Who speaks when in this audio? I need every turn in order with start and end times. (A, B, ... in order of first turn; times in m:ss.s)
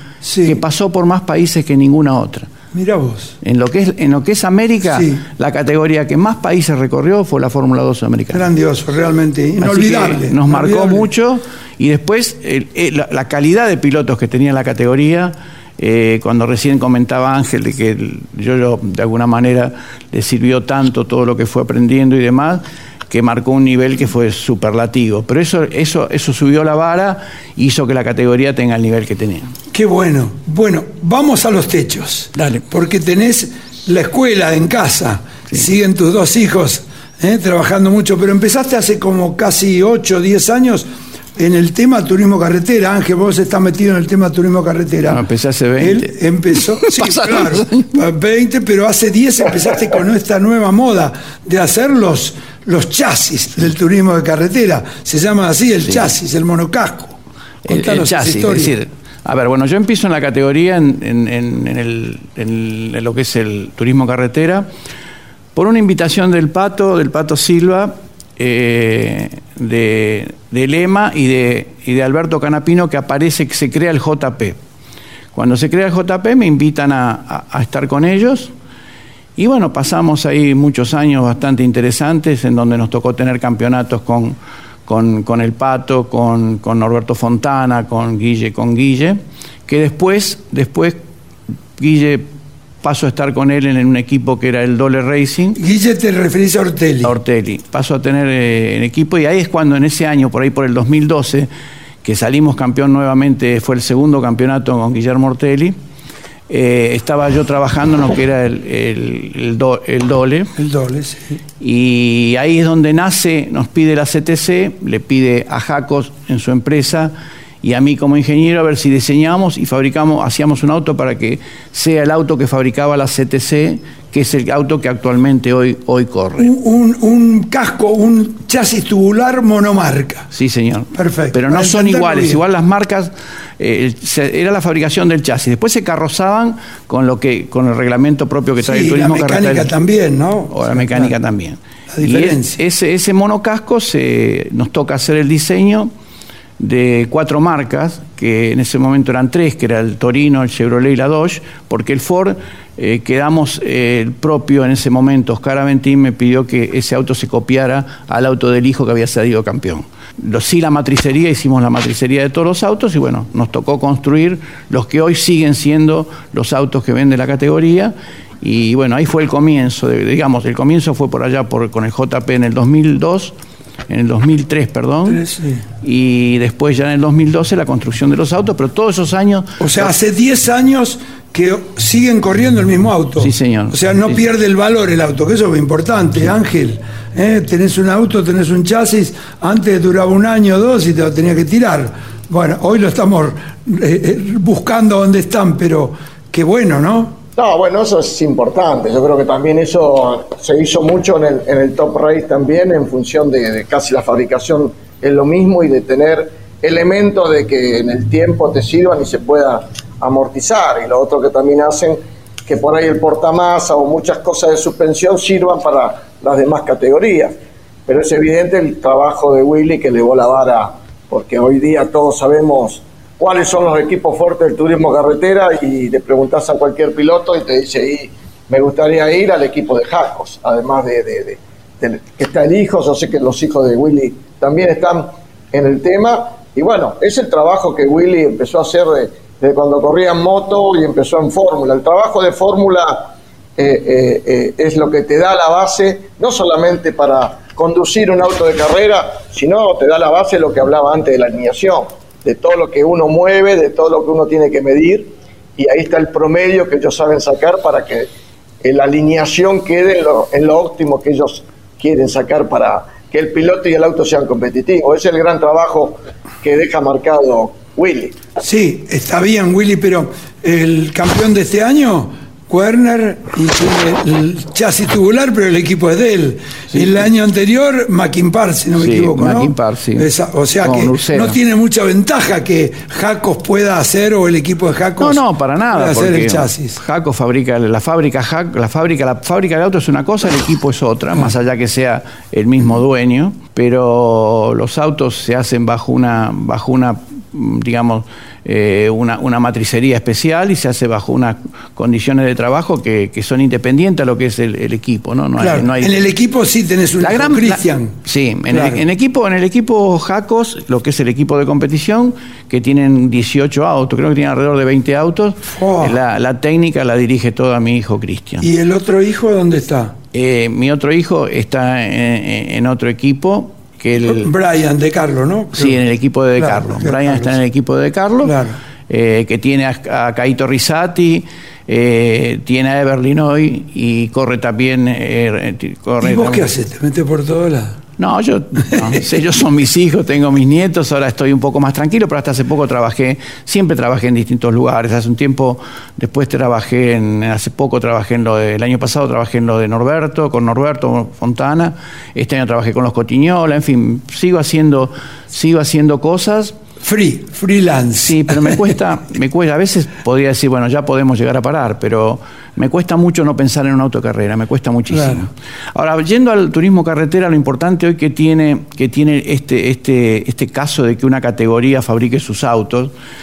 0:00.2-0:00.6 A
0:00.4-0:02.5 B
0:02.7-0:03.4 A
0:03.4-0:08.5 B
0:04.9-0:05.2 A
0:08.3-0:11.1 A
0:09.6-0:29.5 B
0:29.7-0:45.2 A
0:32.4-0:32.6 B
0:45.1-0:46.2 B
0:45.8-0:58.7 A
0:46.8-0:47.9 B
0:57.6-1:04.7 B
1:05.5-1:14.6 B
1:15.3-1:18.5 B
1:19.4-1:31.0 B
1:31.8-1:32.3 B
1:32.8-1:35.6 B
1:35.6-1:37.1 A
1:37.0-1:41.5 B
1:42.0-1:45.8 B
1:46.5-1:50.5 B
1:50.6-1:51.4 A
1:51.6-2:06.5 B
2:06.4-2:10.3 A
2:10.3-2:19.7 B
2:10.9-2:12.4 A
2:18.6-2:21.1 A
2:20.5-2:25.9 B
2:21.9-2:22.6 A
2:26.6-2:53.3 B
2:53.9-2:55.2 B
2:55.0-2:55.6 A
2:55.8-2:59.9 B
2:59.6-3:17.2 A
3:03.2-3:04.2 B
3:17.4-3:37.3 C
3:37.9-4:18.1 C
4:18.6-4:28.2 C
4:28.4-4:46.8 A
4:38.8-4:40.1 B
4:40.6-4:41.4 B
4:45.0-5:06.0 B
5:05.4-5:08.0 A
5:07.0-5:18.5 B
5:08.5-5:08.8 A
5:15.5-5:16.0 A
5:18.4-5:20.0 A
5:20.1-5:24.3 B
5:24.0-5:25.8 A
5:25.5-5:28.3 B
5:26.4-5:27.4 A
5:28.2-5:28.6 A
5:28.9-5:36.5 B
5:36.0-5:37.8 A
5:38.0-5:56.5 B
5:38.7-5:39.0 A
5:56.8-5:58.7 A
5:58.0-6:12.9 B
6:04.9-6:05.2 A